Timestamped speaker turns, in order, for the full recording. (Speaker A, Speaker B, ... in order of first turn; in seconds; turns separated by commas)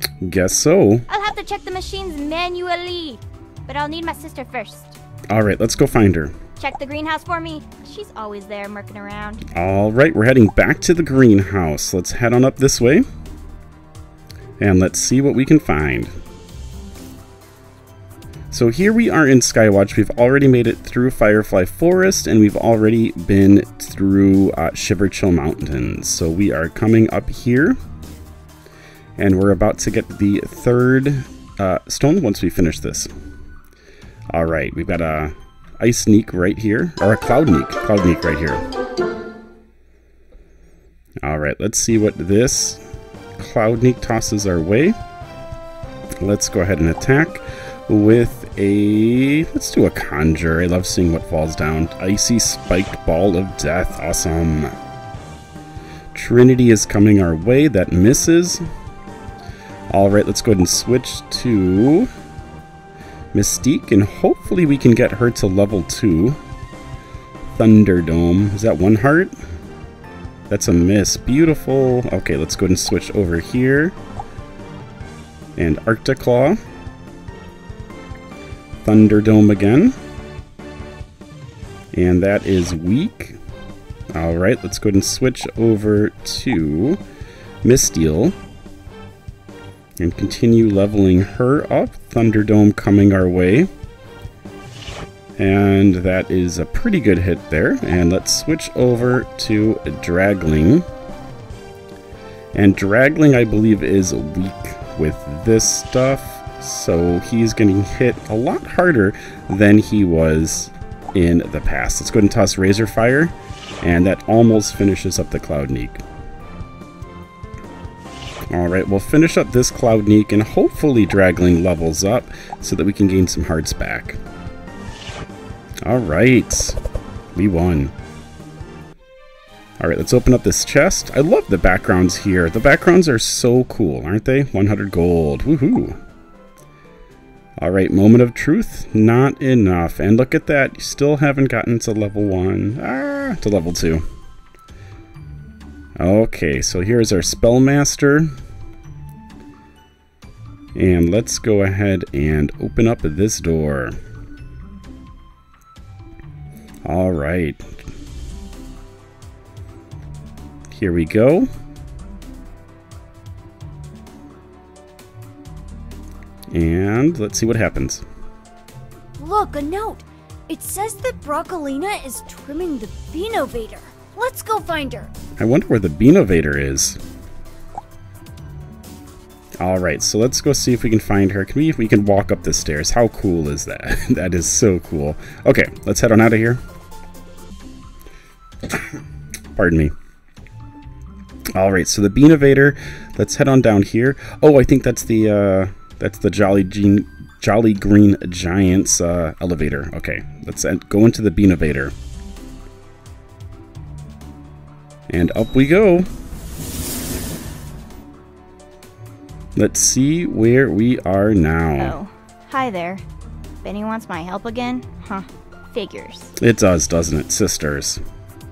Speaker A: 0.2-1.1, Speaker B: 1.1-5.0, Speaker A: 5.3-6.3, Speaker B: 6.6-9.4, Speaker A: 9.5-13.1, Speaker A: 14.6-16.1, Speaker A: 18.5-27.8, Speaker A: 29.2-33.1, Speaker A: 34.3-38.6, Speaker A: 41.2-42.8, Speaker A: 43.4-45.0, Speaker A: 46.2-54.8, Speaker A: 56.1-58.6, Speaker A: 59.9-62.1, Speaker A: 63.3-66.4, Speaker A: 67.5-69.3, Speaker A: 70.5-74.0, Speaker A: 75.6-76.6, Speaker A: 78.8-80.0, Speaker A: 81.9-83.4, Speaker A: 84.1-87.0, Speaker A: 87.6-88.4, Speaker A: 90.0-93.7, Speaker A: 95.4-100.9, Speaker A: 102.5-116.0, Speaker A: 118.5-124.2, Speaker A: 125.8-126.8, Speaker A: 127.3-127.9, Speaker A: 129.8-136.0, Speaker A: 137.6-144.0, Speaker A: 146.0-148.3, Speaker A: 150.8-153.9, Speaker A: 156.8-157.8, Speaker A: 160.7-161.5, Speaker A: 166.5-168.0, Speaker C: 169.2-175.1, Speaker A: 175.4-177.0, Speaker A: 179.6-186.6, Speaker A: 189.6-189.9, Speaker A: 191.6-201.9, Speaker A: 205.1-206.1, Speaker A: 209.6-212.0, Speaker B: 211.8-213.0, Speaker B: 213.6-216.3, Speaker A: 216.4-218.0